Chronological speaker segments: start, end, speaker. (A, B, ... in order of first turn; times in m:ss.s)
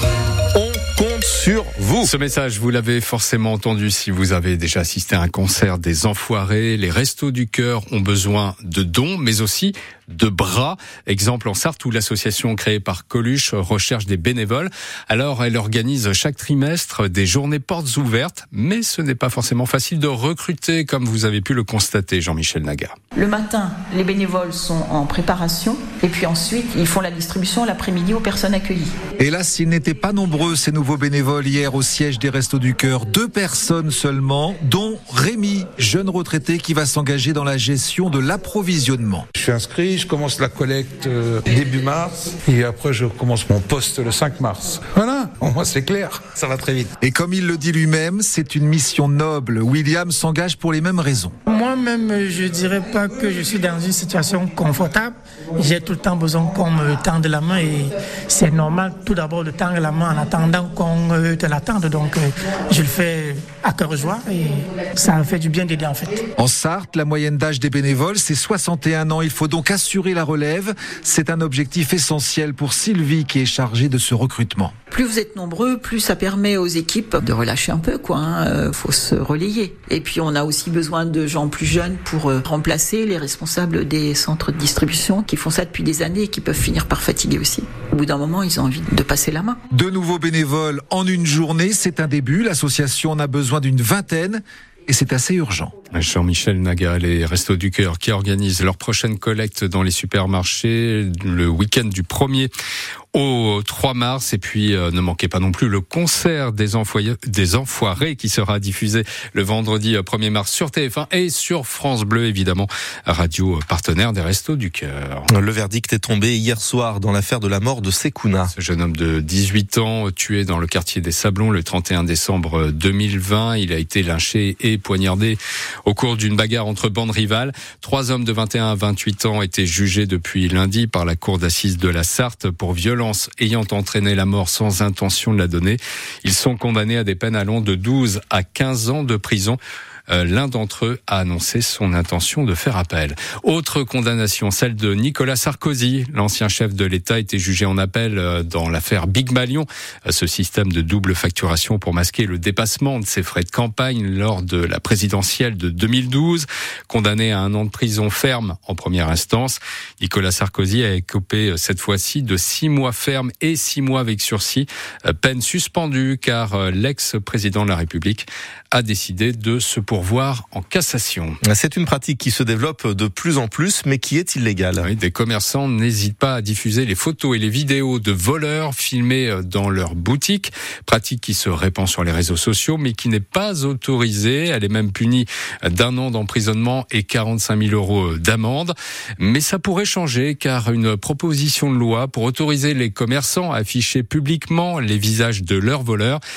0:00.6-0:02.1 A
0:02.0-0:23.0 B
0:23.2-0:28.9 C
0:29.2-0:39.3 D
0:39.4-0:46.9 E
0:47.0-0:51.3 D
0:51.5-1:06.2 F
1:06.4-1:14.8 D
1:14.9-1:29.6 C
1:29.7-1:35.7 D
1:35.9-1:42.5 B
1:43.1-1:55.3 B
1:55.3-1:58.5 A
1:58.5-2:19.6 B
2:20.1-2:51.4 B
2:51.5-2:54.9 A
2:54.8-3:16.2 B